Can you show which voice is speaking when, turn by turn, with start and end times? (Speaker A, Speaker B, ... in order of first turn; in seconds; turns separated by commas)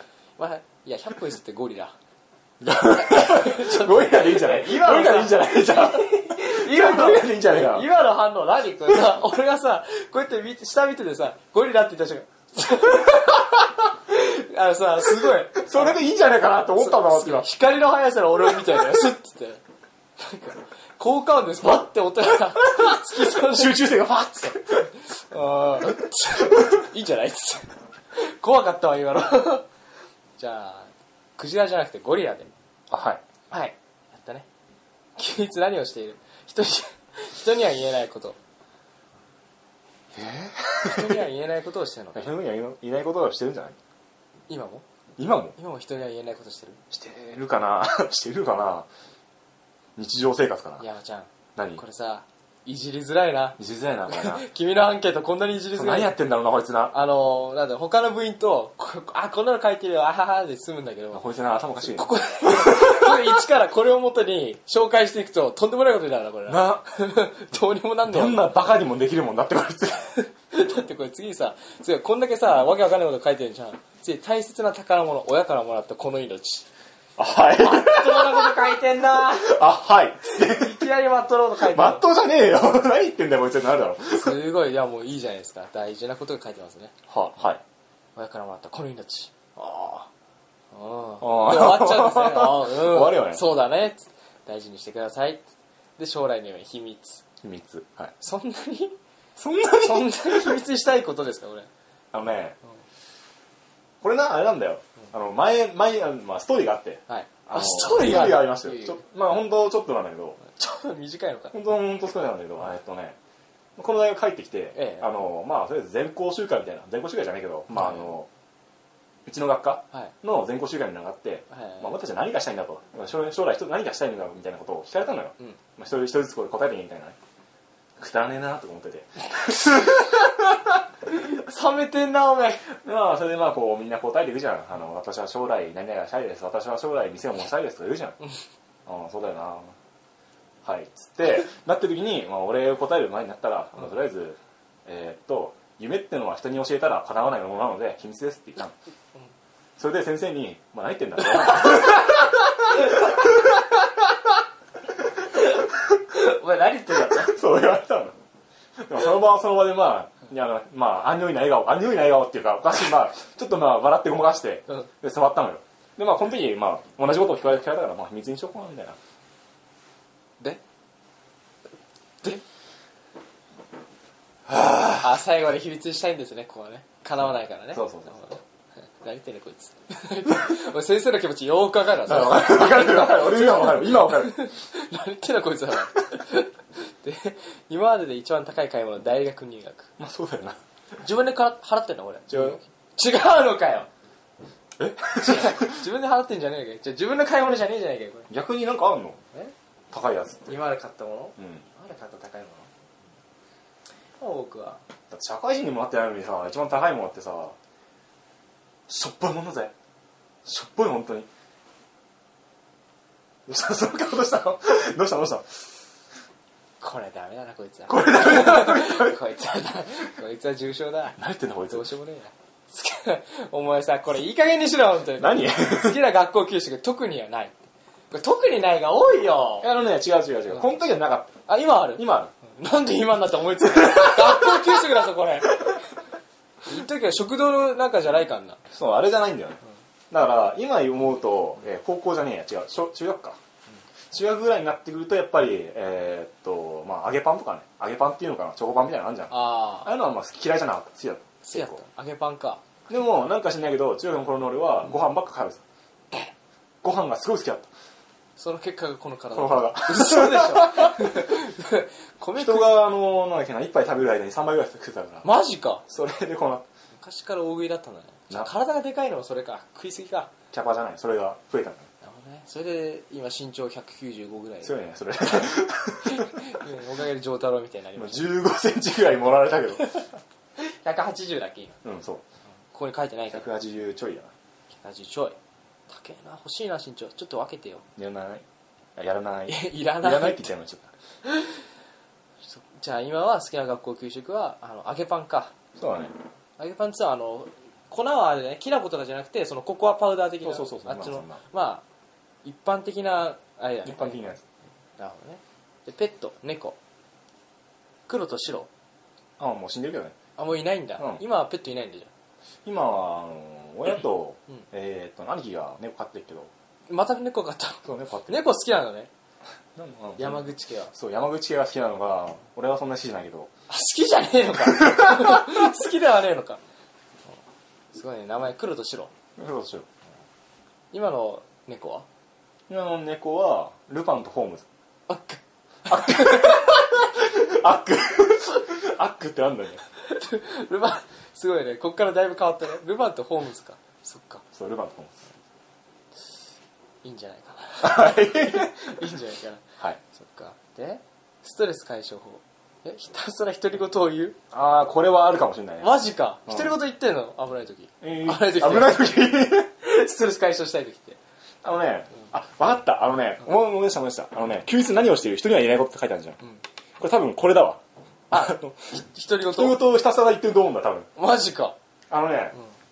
Speaker A: 0.4-1.9, Speaker B: 2.6-7.9, Speaker A: 3.0-16.0, Speaker B: 15.7-17.5, Speaker A: 16.8-19.6, Speaker A: 20.2-23.8, Speaker B: 23.3-24.9, Speaker A: 25.1-29.7, Speaker A: 30.4-32.5, Speaker B: 32.9-33.2, Speaker A: 33.5-34.5, Speaker A: 35.2-38.4, Speaker B: 40.1-41.3, Speaker A: 40.8-42.3, Speaker B: 42.1-43.8, Speaker A: 44.5-44.9, Speaker B: 45.2-45.6, Speaker A: 45.6-46.8, Speaker B: 46.9-48.9, Speaker B: 50.0-50.9, Speaker A: 50.8-56.1, Speaker B: 51.6-51.8, Speaker B: 53.6-54.5, Speaker B: 55.7-57.0, Speaker A: 56.9-61.2, Speaker B: 61.1-63.4, Speaker A: 61.8-68.5, Speaker B: 66.5-66.9, Speaker B: 68.1-70.2, Speaker A: 70.5-76.7, Speaker B: 77.2-80.9, Speaker A: 77.6-79.6, Speaker A: 80.3-82.1, Speaker B: 81.6-84.4, Speaker A: 84.1-86.9, Speaker B: 87.1-87.6, Speaker A: 88.2-90.1, Speaker A: 90.7-95.4, Speaker B: 91.2-93.4, Speaker A: 96.0-97.3, Speaker B: 97.4-98.1, Speaker A: 98.2-99.0, Speaker B: 99.4-100.6, Speaker A: 99.8-101.7, Speaker B: 102.1-102.6, Speaker B: 104.0-110.4, Speaker A: 107.1-109.0, Speaker A: 110.5-111.6, Speaker B: 111.5-113.2, Speaker B: 113.8-118.3, Speaker A: 114.8-115.1, Speaker A: 117.8-118.1, Speaker B: 119.3-127.2, Speaker A: 121.5-121.9, Speaker B: 128.0-130.3, Speaker A: 131.1-132.7, Speaker B: 132.8-138.2, Speaker B: 138.9-139.7, Speaker B: 140.7-148.7, Speaker B: 149.8-153.3, Speaker A: 151.6-151.9, Speaker A: 155.3-157.4, Speaker B: 157.1-158.2, Speaker B: 158.9-169.0, Speaker B: 174.5-175.0, Speaker A: 174.9-178.4, Speaker B: 177.7-178.3, Speaker A: 179.0-189.9, Speaker B: 182.0-184.5, Speaker B: 190.0-190.6, Speaker A: 191.0-193.9, Speaker B: 192.3-192.6, Speaker B: 194.8-195.9, Speaker A: 195.2-198.3, Speaker B: 198.3-199.2, Speaker B: 199.9-200.6, Speaker A: 200.5-202.7, Speaker B: 201.4-201.6, Speaker A: 204.2-204.8, Speaker B: 205.1-207.6, Speaker B: 208.9-209.7, Speaker B: 210.4-211.3, Speaker B: 213.5-215.7, Speaker A: 216.8-227.6, Speaker B: 217.9-219.2, Speaker B: 221.2-221.8, Speaker B: 225.2-226.0, Speaker A: 228.1-229.7, Speaker B: 229.6-231.4, Speaker A: 231.5-235.8, Speaker B: 231.9-232.3, Speaker A: 236.7-238.6, Speaker B: 238.7-243.4, Speaker B: 244.1-251.8, Speaker A: 249.3-249.9, Speaker A: 251.4-252.6, Speaker B: 252.9-255.6, Speaker B: 256.8-257.7, Speaker A: 258.4-262.8, Speaker B: 259.3-261.2, Speaker B: 262.4-265.3, Speaker A: 265.2-265.8, Speaker B: 265.9-266.6, Speaker A: 267.0-270.3, Speaker B: 270.5-271.9, Speaker A: 272.0-274.8, Speaker B: 274.6-276.6, Speaker A: 276.0-278.3, Speaker B: 278.0-280.0, Speaker A: 280.6-281.8, Speaker B: 281.8-282.2, Speaker A: 282.7-283.5, Speaker B: 283.3-284.3, Speaker A: 284.7-285.4, Speaker A: 285.9-287.9, Speaker B: 288.0-288.4, Speaker B: 289.0-290.9, Speaker A: 289.5-290.5, Speaker A: 291.2-291.6, Speaker A: 292.5-295.5, Speaker B: 295.8-296.1, Speaker A: 296.6-301.8, Speaker B: 300.4-301.4, Speaker A: 302.4-304.3, Speaker B: 303.8-304.4, Speaker A: 305.0-306.8, Speaker A: 308.1-308.7, Speaker B: 309.4-310.1, Speaker A: 310.4-312.1, Speaker B: 312.6-316.5, Speaker A: 316.9-319.1, Speaker B: 317.9-318.4, Speaker B: 319.8-323.5, Speaker A: 320.2-320.9, Speaker A: 323.7-326.6, Speaker B: 324.8-325.6, Speaker A: 327.9-329.1, Speaker B: 329.4-329.9, Speaker A: 330.9-332.1, Speaker B: 332.7-334.7, Speaker A: 335.1-336.6, Speaker B: 335.9-339.8, Speaker A: 340.0-344.4, Speaker B: 344.5-345.3, Speaker A: 347.0-354.4, Speaker B: 347.8-348.9, Speaker B: 354.5-356.8, Speaker A: 355.8-359.2, Speaker B: 358.0-359.7, Speaker A: 359.8-361.2, Speaker B: 361.6-366.4, Speaker B: 367.0-368.8, Speaker A: 368.3-369.8, Speaker B: 369.5-371.1, Speaker A: 371.2-371.8, Speaker B: 372.1-372.6